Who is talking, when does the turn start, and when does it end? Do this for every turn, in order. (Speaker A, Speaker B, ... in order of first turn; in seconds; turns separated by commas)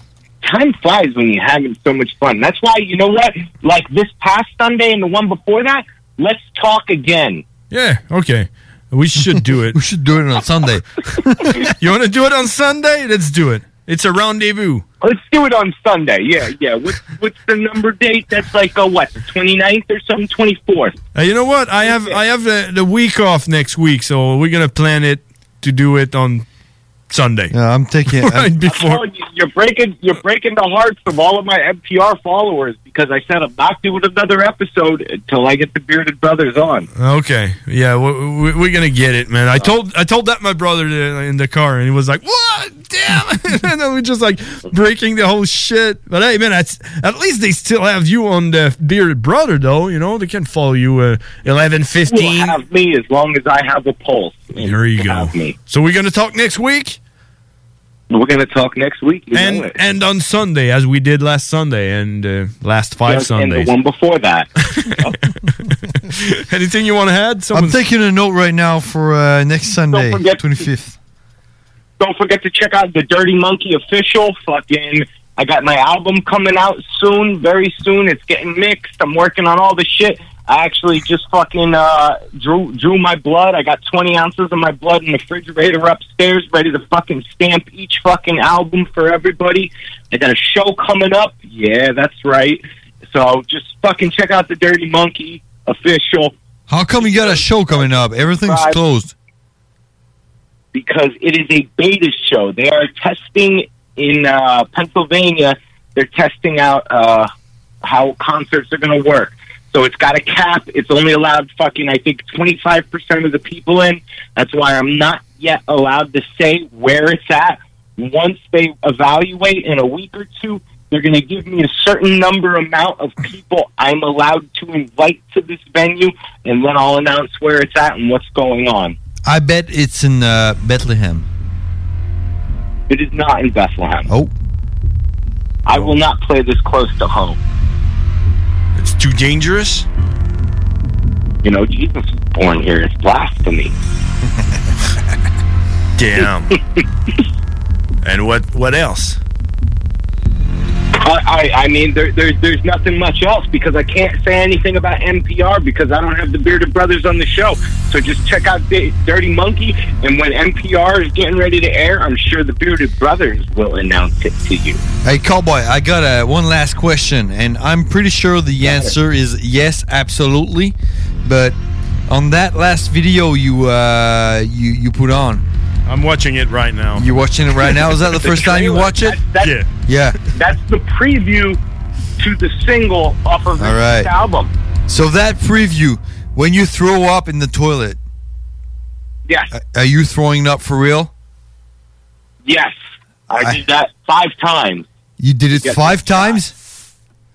Speaker A: 0.4-7.4, Speaker B: 7.7-9.8, Speaker C: 9.7-11.7, Speaker B: 11.6-14.8, Speaker A: 15.0-20.9, Speaker B: 21.1-26.4, Speaker A: 21.9-22.2, Speaker B: 27.1-27.5, Speaker C: 27.5-28.5, Speaker B: 28.1-29.0, Speaker A: 28.7-36.9, Speaker B: 37.0-52.6, Speaker A: 52.1-55.5, Speaker B: 54.6-57.0, Speaker A: 58.1-59.7, Speaker B: 59.3-63.7, Speaker A: 63.0-64.5, Speaker B: 64.7-65.5, Speaker B: 66.2-67.8, Speaker C: 67.5-71.0, Speaker A: 69.9-70.5, Speaker A: 72.0-96.3, Speaker C: 96.7-99.1, Speaker A: 97.0-98.8, Speaker A: 100.7-107.3, Speaker A: 107.8-128.9, Speaker C: 129.2-131.3, Speaker A: 132.9-134.1, Speaker A: 135.7-137.4, Speaker B: 138.8-139.9, Speaker A: 141.4-143.7, Speaker B: 146.0-146.5, Speaker B: 148.0-149.2, Speaker A: 150.9-164.8, Speaker C: 165.0-171.6, Speaker A: 168.6-168.9, Speaker C: 172.1-175.4, Speaker B: 175.9-178.4, Speaker C: 176.9-179.2, Speaker A: 178.5-179.6, Speaker B: 179.4-179.7, Speaker C: 179.9-180.2, Speaker A: 180.3-181.6, Speaker A: 182.2-184.5, Speaker C: 183.6-184.1, Speaker C: 184.9-188.0, Speaker C: 189.5-191.1, Speaker A: 192.4-192.7, Speaker A: 193.3-194.9, Speaker C: 195.2-196.5, Speaker A: 195.6-196.4